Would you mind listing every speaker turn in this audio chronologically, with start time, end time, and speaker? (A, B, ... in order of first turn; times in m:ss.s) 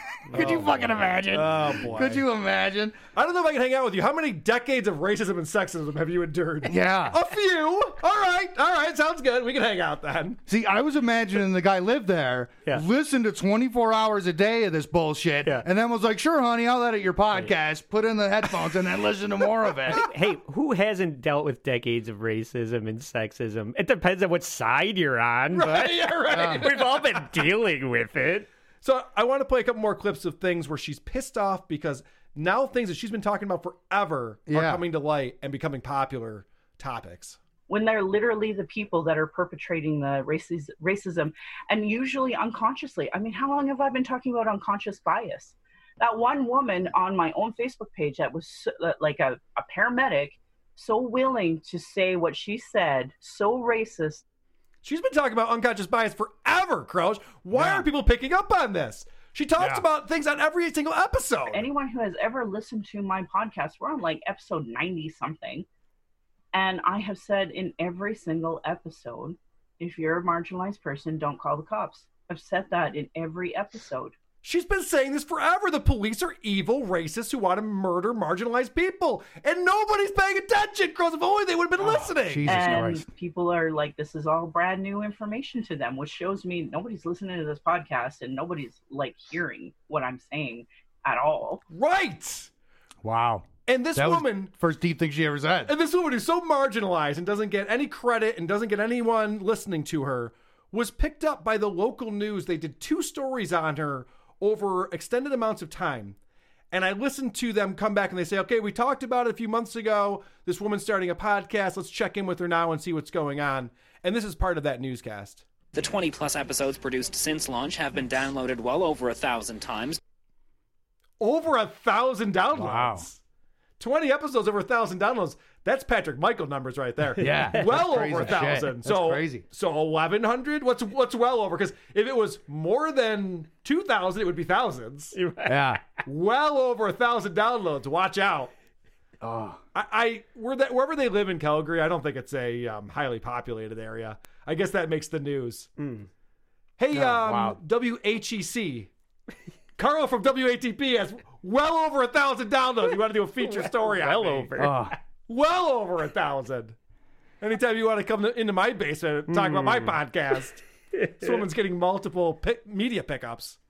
0:00.3-0:03.0 A
0:00.3-0:02.2 B
0:03.1-0:10.4 B
0:06.6-0:07.2 A
0:10.5-0:20.0 A
0:19.9-0:28.5 C
0:25.5-0:27.2 B
0:26.3-0:26.6 A
0:28.8-0:37.4 B
0:34.5-0:34.8 A
0:37.7-0:54.2 D
0:54.8-1:01.7 B
0:57.6-0:57.8 A
0:59.6-0:59.8 A
1:01.5-1:05.6 D
1:06.5-1:14.1 D
1:14.4-1:22.8 B
1:21.8-1:23.1 A
1:22.5-1:31.6 D
1:31.7-1:32.5 B
1:33.0-1:35.7 A
1:33.7-1:34.5 B
1:35.7-1:46.2 B
1:46.7-1:55.4 B
1:55.7-2:00.0 E
2:01.2-2:03.2 B
2:02.5-2:03.1 A
2:03.8-2:15.2 B
2:07.2-2:09.4 A
2:07.5-2:08.3 C
2:15.1-2:15.8 C
2:15.5-2:15.8 A
2:16.1-2:18.5 B
2:19.2-2:19.6 A
2:19.8-2:25.7 B
2:25.8-2:26.1 C
2:26.8-2:28.9 B
2:26.9-2:27.6 A
2:29.8-2:34.5 B
2:33.4-2:35.0 C
2:34.6-2:35.0 A
2:35.3-2:36.8 B
2:37.4-2:40.6 B
2:39.3-2:40.0 C
2:41.0-2:41.4 C
2:41.2-2:43.6 B